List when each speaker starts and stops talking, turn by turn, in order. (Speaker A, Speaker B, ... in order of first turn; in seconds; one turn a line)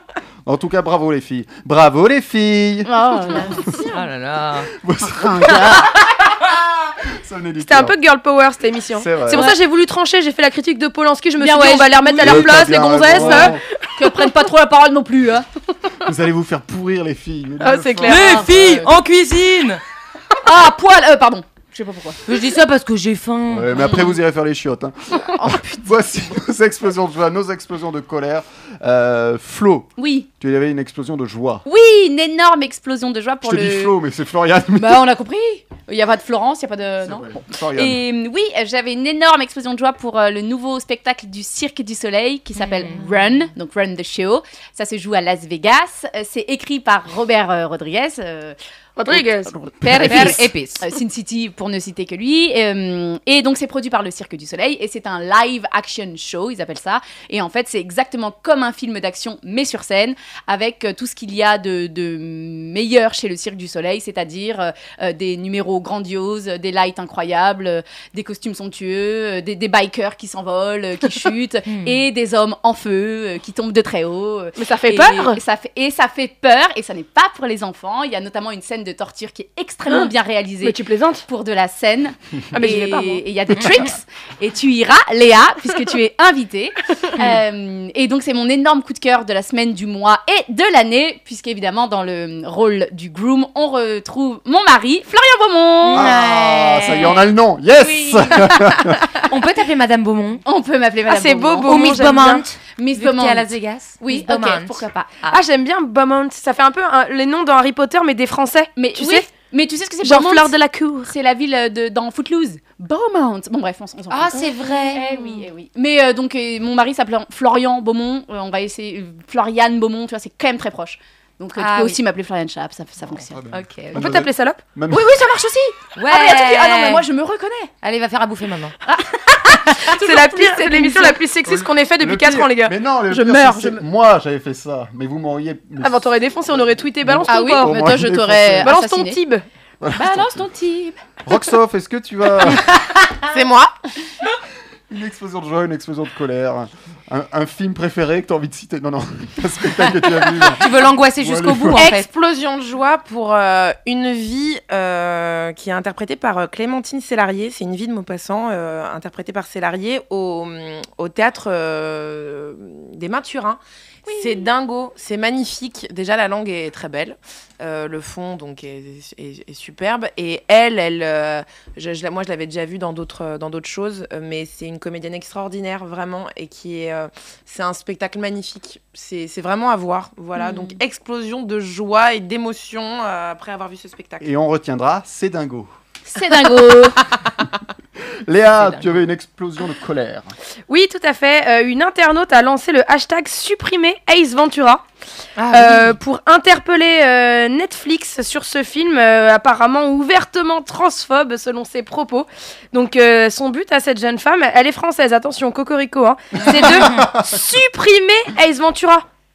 Speaker A: 0.4-3.7
Speaker B: 2.9-3.9
Speaker C: 3.9-4.7
Speaker A: 4.7-8.0
Speaker B: 5.2-5.9
Speaker D: 7.6-14.3
Speaker A: 8.9-9.5
Speaker B: 11.4-15.4
Speaker A: 12.2-13.6
Speaker A: 16.0-18.5
Speaker D: 17.6-18.5
Speaker C: 18.1-19.8
Speaker B: 18.1-18.9
Speaker B: 20.4-22.2
Speaker C: 22.2-23.9
Speaker A: 23.5-29.9
Speaker B: 25.3-25.8
Speaker B: 30.0-30.3
Speaker A: 30.4-31.6
Speaker B: 31.6-34.0
Speaker A: 33.4-35.1
Speaker B: 34.8-48.5
Speaker A: 37.0-38.0
Speaker C: 42.6-43.0
Speaker D: 49.0-49.5
Speaker B: 49.1-96.0
Speaker C: 49.9-50.8
Speaker D: 50.1-50.4
Speaker C: 71.7-72.0
Speaker D: 74.6-75.4
Speaker D: 80.6-81.2
Speaker D: 82.5-83.2
Speaker C: 95.8-97.3
Speaker A: 95.9-99.0
Speaker C: 98.0-100.4
Speaker B: 100.5-101.8
Speaker D: 101.1-102.4
Speaker C: 101.7-105.4
Speaker B: 102.8-105.1
Speaker D: 105.3-109.3
Speaker B: 108.8-110.5
Speaker D: 110.0-111.1
Speaker B: 111.0-124.1
Speaker C: 114.1-115.3
Speaker C: 121.6-122.0
Speaker A: 123.1-125.1
Speaker D: 123.9-124.6
Speaker B: 124.9-127.7
Speaker C: 126.0-127.0
Speaker C: 127.8-128.7
Speaker B: 128.8-131.2
Speaker D: 129.9-133.8
Speaker A: 131.5-138.7
Speaker D: 135.8-137.9
Speaker B: 137.3-139.2
Speaker D: 138.6-139.4
Speaker A: 139.8-140.4
Speaker B: 139.9-141.0
Speaker A: 141.2-142.7
Speaker E: 143.3-143.7
Speaker A: 144.9-150.6
Speaker C: 150.4-152.1
Speaker A: 151.2-151.8
Speaker E: 151.7-184.2
Speaker B: 164.1-164.4
Speaker A: 184.2-185.7
Speaker B: 186.1-187.0
Speaker A: 188.2-190.3
Speaker C: 188.6-189.0
Speaker D: 190.7-194.8
Speaker C: 195.4-196.0
Speaker D: 195.5-209.0
Speaker A: 206.4-207.3
Speaker C: 206.4-207.1